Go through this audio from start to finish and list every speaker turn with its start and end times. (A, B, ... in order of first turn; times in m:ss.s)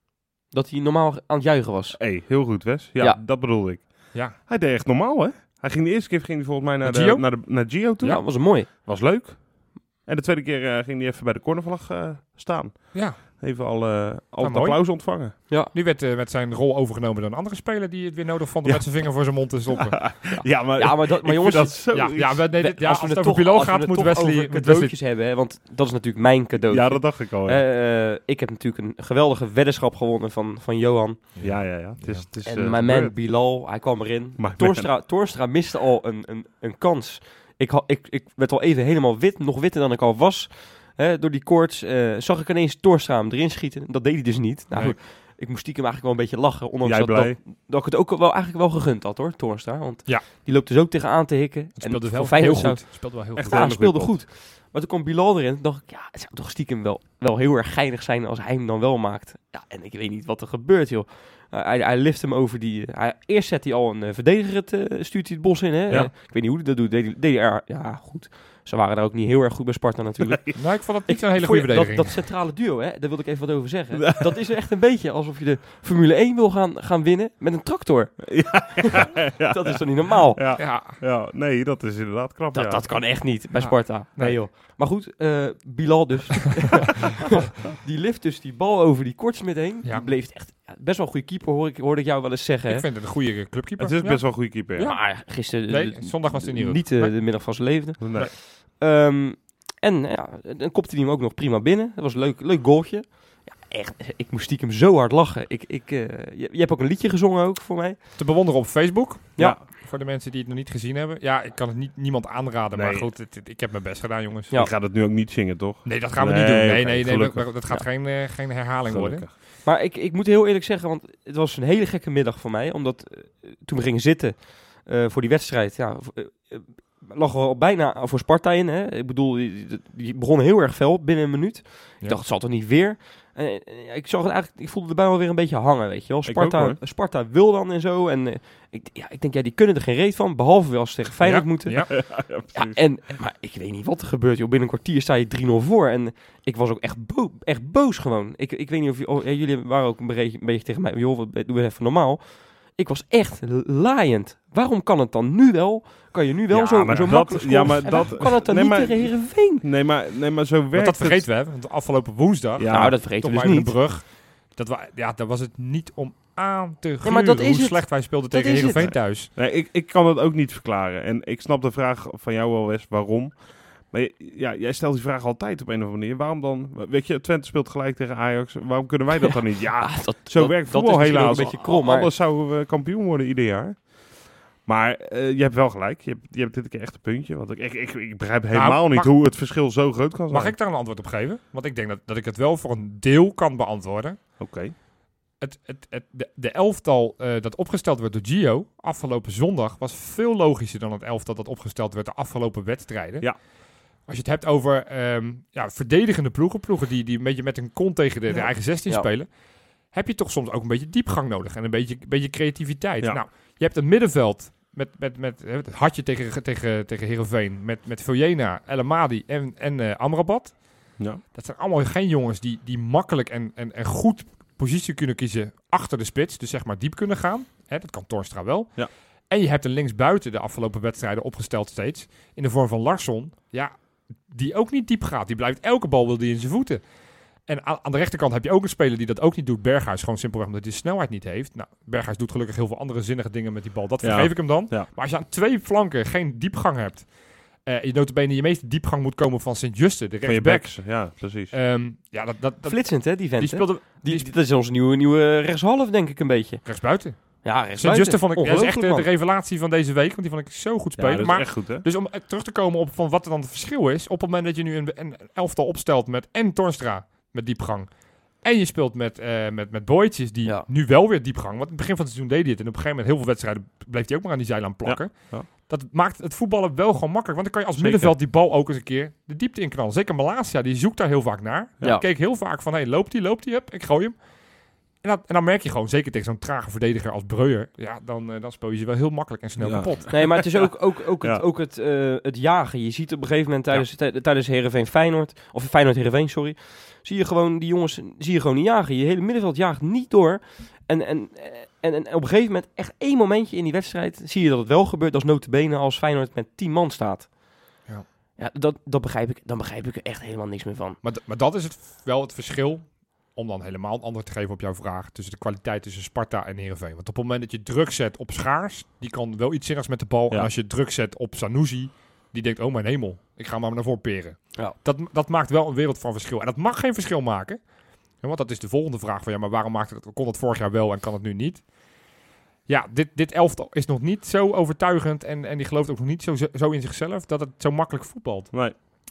0:00.5-0:02.4 A
0:01.9-0:15.3 B
0:06.8-0:08.2 C
0:08.0-0:08.7 A
0:14.4-0:20.3 C
0:18.6-0:19.1 B
0:19.7-0:22.4 B
0:20.3-0:31.3 A
0:21.9-0:25.0 C
0:26.6-0:27.6 B
0:31.3-0:32.2 C
0:31.4-0:33.1 B
0:32.4-1:20.4 A
0:34.4-0:34.9 B
0:44.7-0:45.0 C
0:46.8-0:47.4 B
0:51.8-0:53.7 C
0:53.4-0:54.2 B
1:10.5-1:12.2 C
1:14.0-1:14.3 B
1:18.3-1:22.9 B
1:20.6-1:21.0 C
1:22.5-1:32.8 A
1:23.6-1:24.4 C
1:32.7-1:38.3 C
1:33.8-1:34.9 B
1:34.8-1:48.0 A
1:38.0-1:38.3 B
1:48.2-1:54.5 C
1:52.7-1:53.1 B
1:54.5-1:57.5 B
1:55.8-1:59.3 C
1:58.9-1:59.3 B
1:59.6-2:39.6 A
2:16.2-2:16.8 B
2:21.2-2:22.0 C
2:21.9-2:22.8 B
2:36.5-2:41.3 B
2:40.7-2:49.3 C
2:42.6-2:43.0 B
2:42.7-2:43.8 A
2:47.0-2:48.9 A
2:48.8-3:10.6 B
2:59.8-3:02.1 A
3:08.5-3:09.2 C
3:10.3-3:14.2 C
3:14.4-3:14.7 B
3:15.4-3:23.3 C
3:24.1-3:29.3 C
3:28.3-3:29.1 A
3:29.9-3:40.6 C
3:41.3-3:53.7 C
3:54.3-3:56.8 C
3:57.5-4:07.1 C
4:04.0-4:04.9 B
4:07.6-4:14.3 C
4:10.2-4:11.5 B
4:12.6-4:16.6 A
4:16.6-4:27.9 C
4:17.4-4:19.1 A
4:21.0-4:21.8 B
4:28.4-4:44.2 C
4:34.8-4:35.5 B
4:37.8-4:38.2 B
4:45.0-4:50.4 C
4:49.6-4:51.4 B
4:50.1-5:07.3 A
5:08.4-5:11.0 A
5:11.0-5:27.6 C
5:28.2-5:31.7 C
5:32.7-5:38.7 C